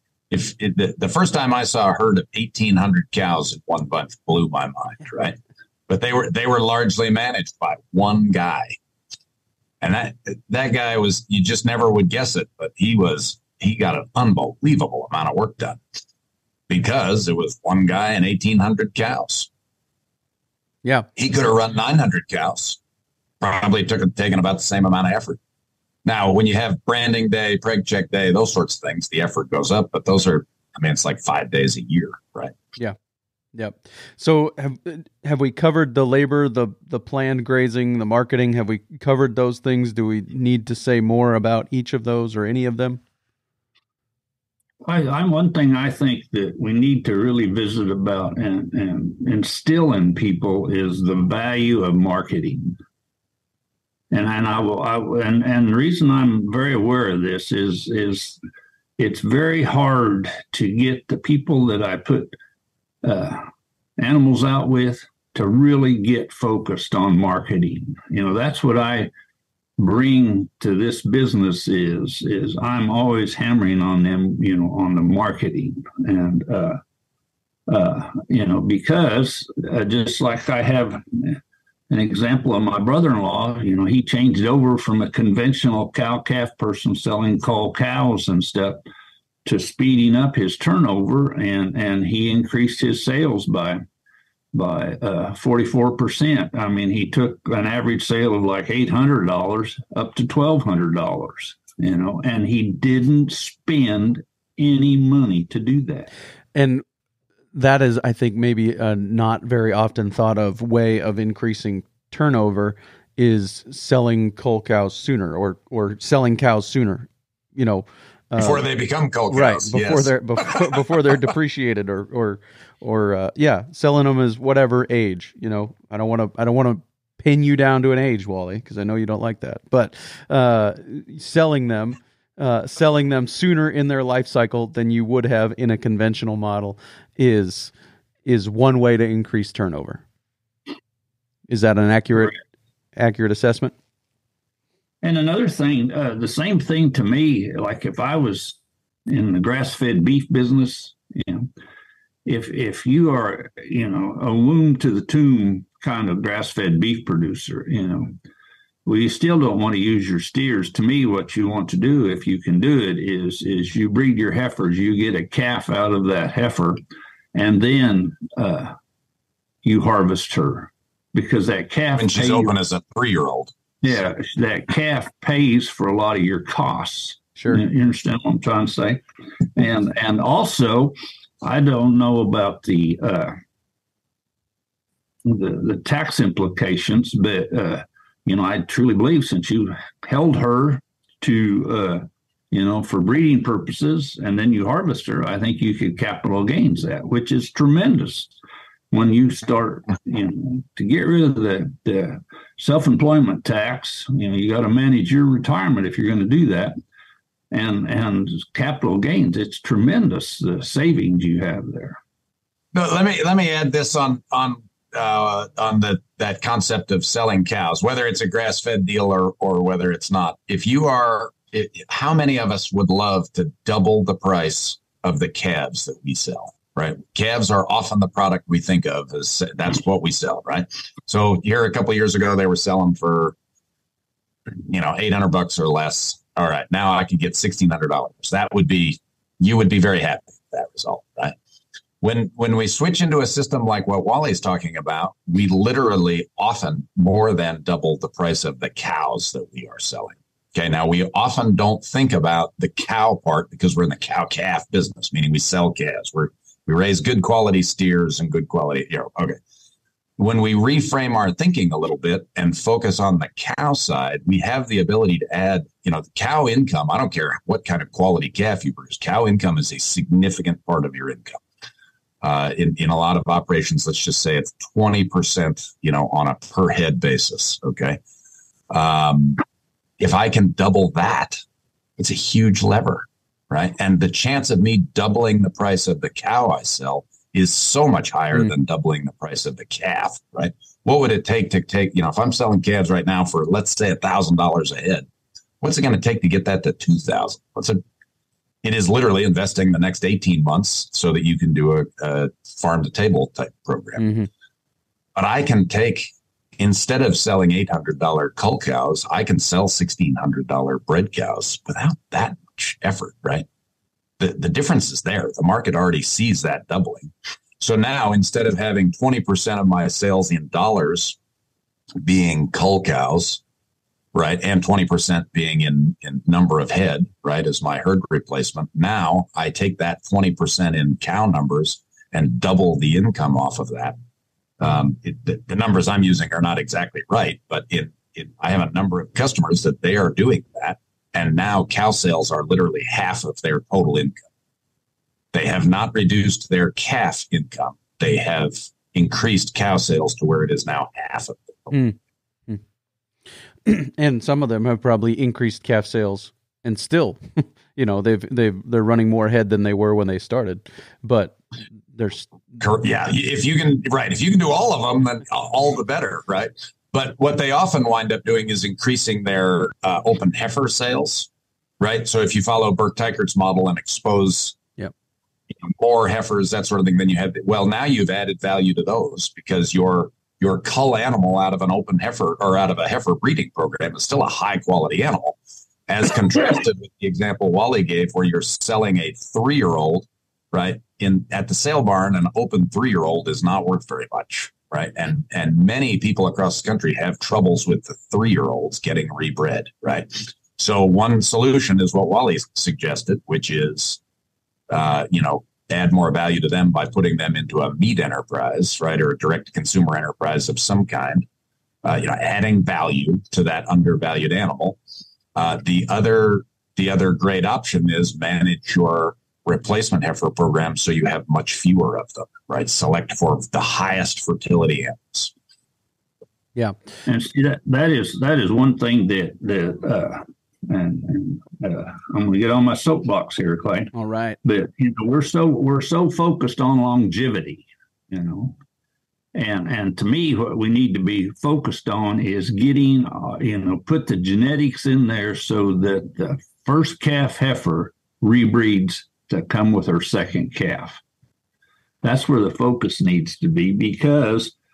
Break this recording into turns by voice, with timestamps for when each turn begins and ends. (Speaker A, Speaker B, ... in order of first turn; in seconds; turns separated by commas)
Speaker A: 0.3-5.4, Speaker A: 5.9-8.8, Speaker A: 9.8-15.8, Speaker A: 16.7-19.5, Speaker A: 21.1-22.8, Speaker A: 23.4-25.4, Speaker A: 26.0-32.5, Speaker B: 33.5-43.0, Speaker C: 44.8-52.8, Speaker C: 54.1-58.4, Speaker C: 59.0-62.3, Speaker C: 63.0-63.5, Speaker C: 64.0-69.1, Speaker C: 69.8-76.8, Speaker C: 77.7-81.4, Speaker C: 81.9-88.8, Speaker C: 89.4-93.8, Speaker C: 94.5-106.1, Speaker B: 106.5-106.8, Speaker B: 107.5-118.6, Speaker A: 118.4-120.7, Speaker B: 119.3-137.7, Speaker B: 138.2-140.0, Speaker B: 141.5-142.3, Speaker B: 142.9-143.7, Speaker C: 145.0-148.6, Speaker C: 149.1-151.5, Speaker C: 152.2-158.2, Speaker C: 158.8-166.8, Speaker C: 167.3-168.7, Speaker C: 169.6-172.5, Speaker A: 171.9-173.5, Speaker C: 173.8-179.0, Speaker C: 179.6-183.4, Speaker C: 185.2-198.3, Speaker C: 198.9-206.8, Speaker C: 207.5-212.0, Speaker A: 212.7-233.3, Speaker A: 234.5-241.3, Speaker A: 242.0-259.4, Speaker A: 260.2-271.4, Speaker A: 272.2-278.0, Speaker A: 278.7-279.4, Speaker A: 280.0-281.4, Speaker A: 282.0-295.1, Speaker A: 295.6-297.8, Speaker A: 298.6-304.1, Speaker B: 304.0-304.3, Speaker A: 305.1-313.4, Speaker A: 314.2-321.2, Speaker A: 322.0-323.4, Speaker A: 324.1-334.0, Speaker A: 334.6-344.2, Speaker A: 345.3-351.8, Speaker B: 351.7-351.9, Speaker B: 353.6-361.4, Speaker B: 361.9-362.5, Speaker A: 362.6-371.3, Speaker A: 371.8-374.6, Speaker A: 375.6-404.0, Speaker A: 404.7-411.2, Speaker A: 411.8-414.8, Speaker A: 415.3-425.3, Speaker C: 427.1-438.6, Speaker B: 433.9-434.4, Speaker C: 439.3-451.0, Speaker C: 452.0-454.5